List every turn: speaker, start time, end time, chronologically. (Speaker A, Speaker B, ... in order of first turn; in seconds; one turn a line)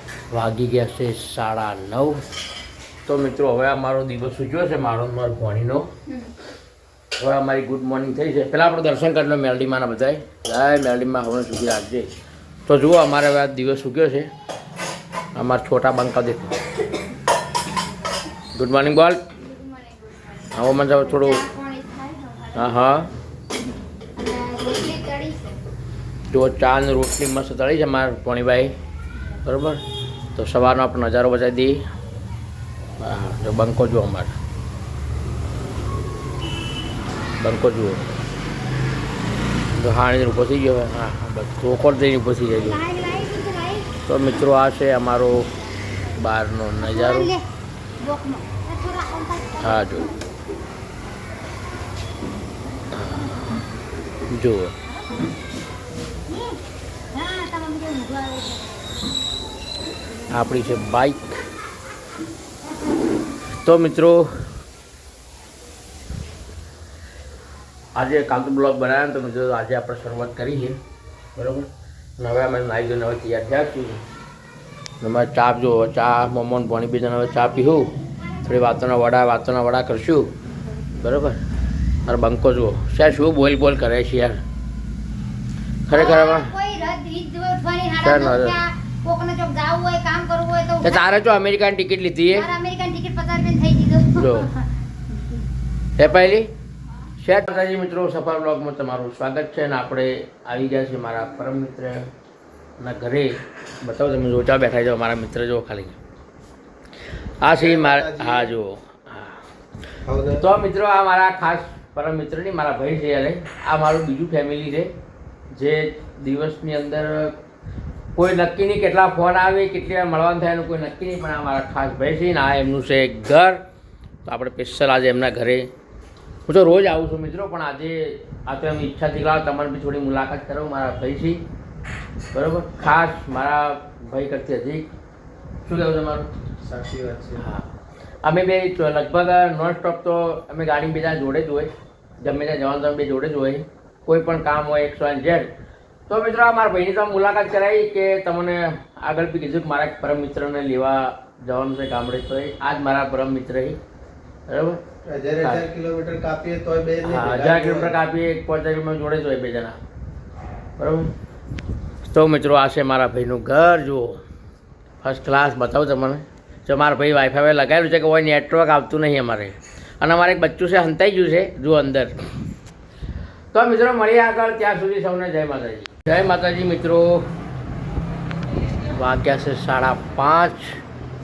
Speaker A: 0.3-2.2
Speaker A: 3.1-5.9
Speaker A: 7.2-12.1
Speaker A: 12.7-14.3
Speaker A: 15.3-16.6
Speaker A: 18.6-19.2
Speaker B: 19.4-22.8
Speaker A: 20.5-21.4
Speaker A: 22.5-23.1
Speaker B: 24.2-25.6
Speaker A: 26.3-28.8
Speaker A: 29.4-29.8
Speaker A: 30.3-31.8
Speaker A: 33.0-34.3
Speaker A: 37.4-38.0
Speaker A: 39.8-42.8
Speaker B: 42.5-43.9
Speaker A: 44.0-45.4
Speaker A: 46.2-47.3
Speaker B: 46.8-47.5
Speaker B: 48.0-50.2
Speaker A: 49.6-50.1
Speaker A: 52.9-53.4
Speaker A: 54.3-54.7
Speaker B: 56.3-56.6
Speaker B: 57.1-58.9
Speaker A: 60.3-61.3
Speaker A: 63.6-64.3
Speaker A: 68.0-70.8
Speaker A: 71.4-71.7
Speaker A: 72.2-74.0
Speaker A: 75.0-77.9
Speaker B: 77.3-78.5
Speaker A: 78.5-80.3
Speaker A: 81.0-81.4
Speaker A: 82.1-84.4
Speaker A: 85.9-86.5
Speaker B: 85.9-91.2
Speaker A: 88.0-88.6
Speaker A: 90.8-92.5
Speaker B: 92.3-94.7
Speaker A: 94.2-94.5
Speaker A: 96.0-96.5
Speaker A: 97.2-102.1
Speaker A: 102.8-106.0
Speaker A: 107.4-109.4
Speaker C: 107.5-108.5
Speaker C: 110.1-110.4
Speaker A: 110.4-114.9
Speaker A: 115.5-117.3
Speaker A: 118.2-123.6
Speaker A: 124.2-125.7
Speaker A: 126.5-131.4
Speaker A: 132.3-134.9
Speaker A: 135.7-136.3
Speaker C: 136.7-137.4
Speaker A: 137.3-137.7
Speaker A: 138.2-145.5
Speaker A: 146.1-153.8
Speaker A: 154.5-154.8
Speaker C: 155.0-158.0
Speaker A: 155.4-155.7
Speaker A: 157.0-159.8
Speaker A: 160.8-161.1
Speaker A: 162.1-164.2
Speaker A: 165.0-172.1
Speaker A: 173.5-177.3
Speaker A: 178.8-180.8